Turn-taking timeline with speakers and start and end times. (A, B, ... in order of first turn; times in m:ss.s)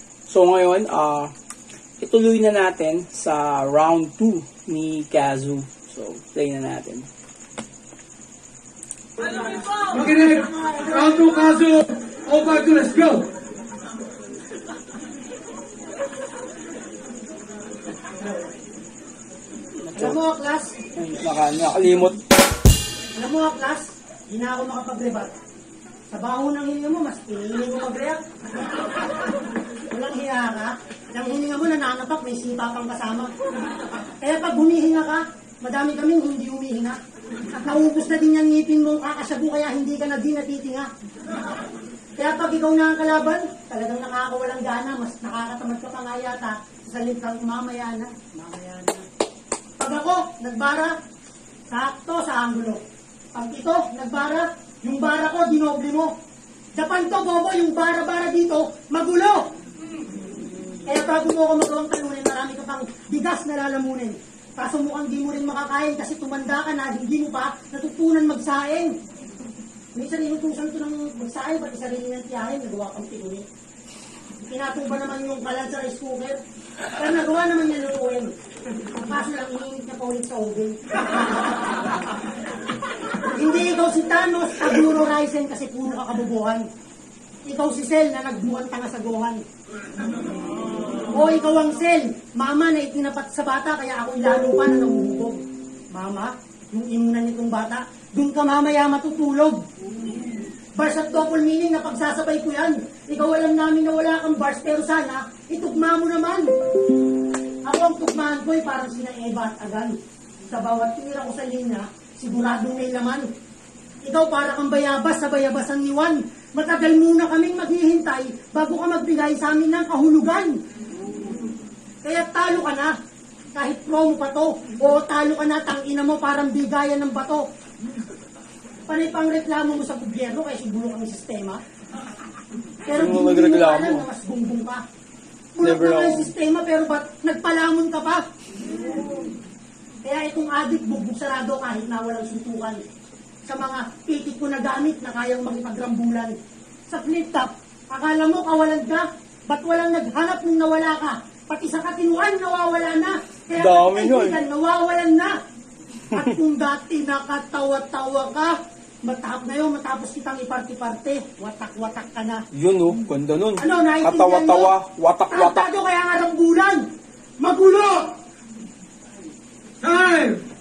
0:00.3-0:01.3 A
0:02.0-0:07.1 A
0:09.8-0:13.3 B
0:19.8-0:20.2 A
0:20.0-0:20.8 C
0:21.0-0:22.2 A
0:23.2-0:25.3 C
0:26.1-0:28.2 C
0:29.9-0:33.3 C
0:34.2-0:37.0 C
0:37.6-0:40.9 C
0:42.2-0:49.0 C
0:49.8-0:50.9 C
0:51.7-0:52.8 C
0:53.3-0:56.1 C
0:56.7-0:59.4 C
1:00.8-1:08.9 C
1:09.9-1:13.4 C
1:14.4-1:16.4 C
1:17.0-1:18.3 C
1:19.0-1:21.5 C
1:23.3-1:26.6 C
1:27.5-1:29.4 C
1:31.1-1:35.4 C
1:35.9-1:39.6 C
1:40.7-1:46.4 C
1:47.6-1:50.0 C
1:50.5-1:53.3 C
1:54.0-2:00.6 C
2:02.0-2:02.9 C
2:03.5-2:07.4 C
2:08.9-2:11.6 C
2:12.8-2:14.8 C
2:12.9-2:14.0 A
2:15.6-2:18.2 C
2:15.6-2:16.3 A
2:20.0-2:22.8 C
2:23.4-2:26.3 C
2:26.9-2:35.3 C
2:33.6-2:34.4 A
2:36.1-2:42.4 C
2:42.5-2:45.7 A
2:43.6-2:44.7 C
2:45.3-2:46.8 C
2:47.4-2:48.1 C
2:49.8-2:50.4 B